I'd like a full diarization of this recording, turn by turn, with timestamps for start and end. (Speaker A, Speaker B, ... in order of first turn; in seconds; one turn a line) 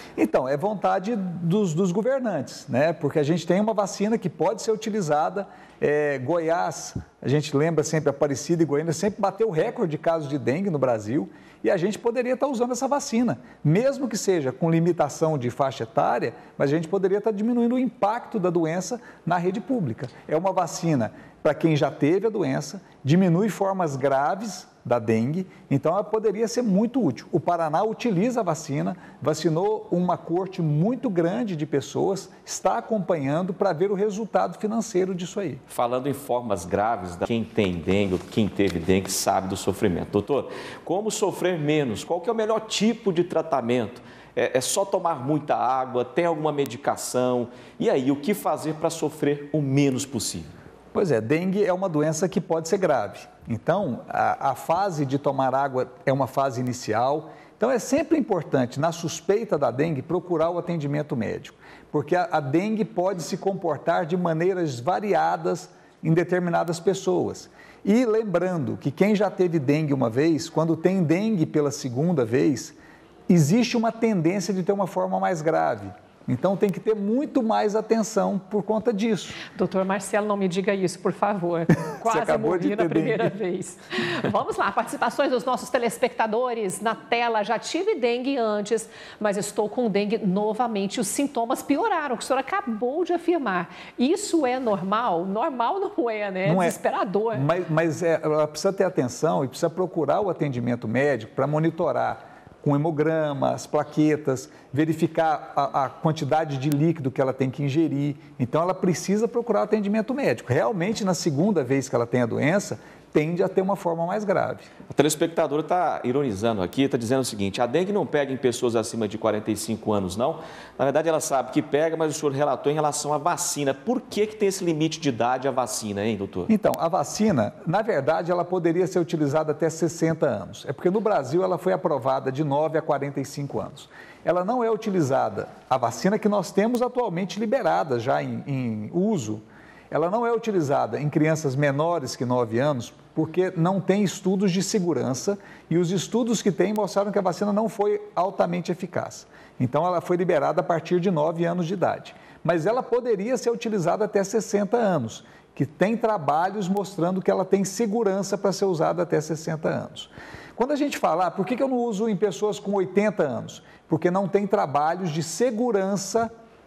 Speaker A: 0.2-35.6
Speaker B: 35.7-50.5
Speaker A: 50.9-72.8
Speaker A: 73.3-79.4
Speaker C: 79.5-97.4
Speaker A: 81.8-83.3
Speaker A: 96.4-96.8
Speaker A: 97.3-114.7
Speaker B: 114.9-126.5
Speaker A: 126.5-166.3